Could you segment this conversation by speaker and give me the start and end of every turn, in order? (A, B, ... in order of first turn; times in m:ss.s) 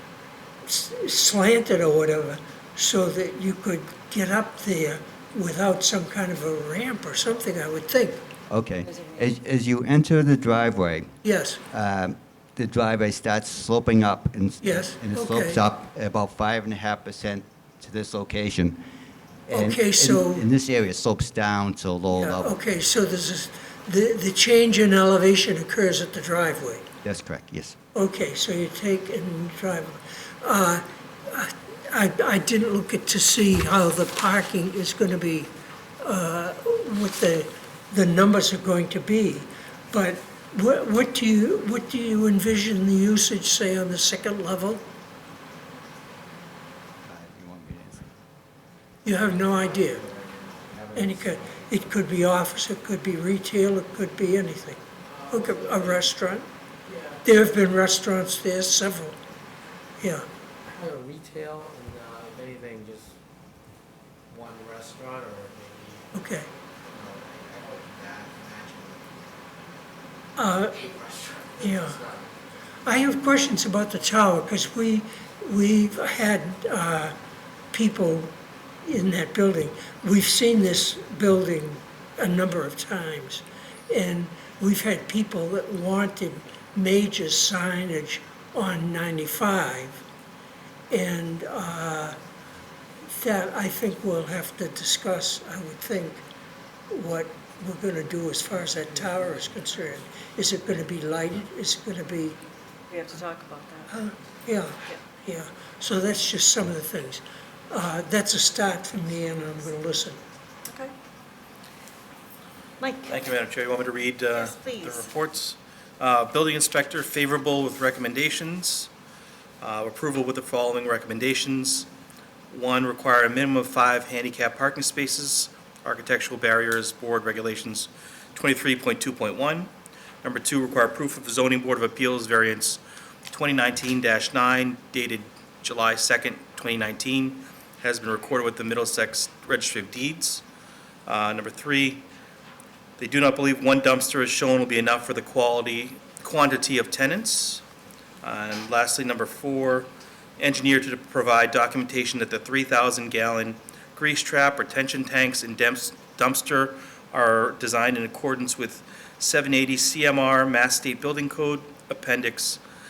0:00.6-0:08.3 A
0:08.5-0:11.2 B
0:08.8-0:09.3 C
0:11.2-0:11.6 A
0:11.7-0:18.8 B
0:14.6-0:15.6 A
0:19.5-0:20.5 A
0:19.5-0:22.6 B
0:22.1-0:26.9 A
0:27.0-0:27.8 B
0:28.0-0:44.8 A
0:47.0-0:48.1 B
0:49.0-0:50.0 A
0:50.5-0:51.4 D
0:51.0-0:56.5 A
0:55.1-0:56.0 D
0:57.2-0:59.2 A
1:00.0-1:00.2 A
1:06.1-1:06.5 A
1:07.0-1:09.0 D
1:10.4-1:10.8 A
1:11.6-1:12.0 A
1:12.8-1:17.1 A
1:17.7-1:30.0 A
1:30.9-1:32.2 A
1:33.1-1:36.2 A
1:36.9-1:42.4 A
1:42.9-1:44.0 C
1:43.9-1:50.2 A
1:50.7-1:50.9 C
1:52.8-1:53.2 C
1:53.1-1:58.9 E
1:54.3-1:55.1 C
1:59.6-2:01.9 E
2:02.5-2:09.7 E
2:10.2-2:20.4 E
2:21.1-2:22.0 E
2:23.0-2:27.6 E
2:28.2-2:42.6 E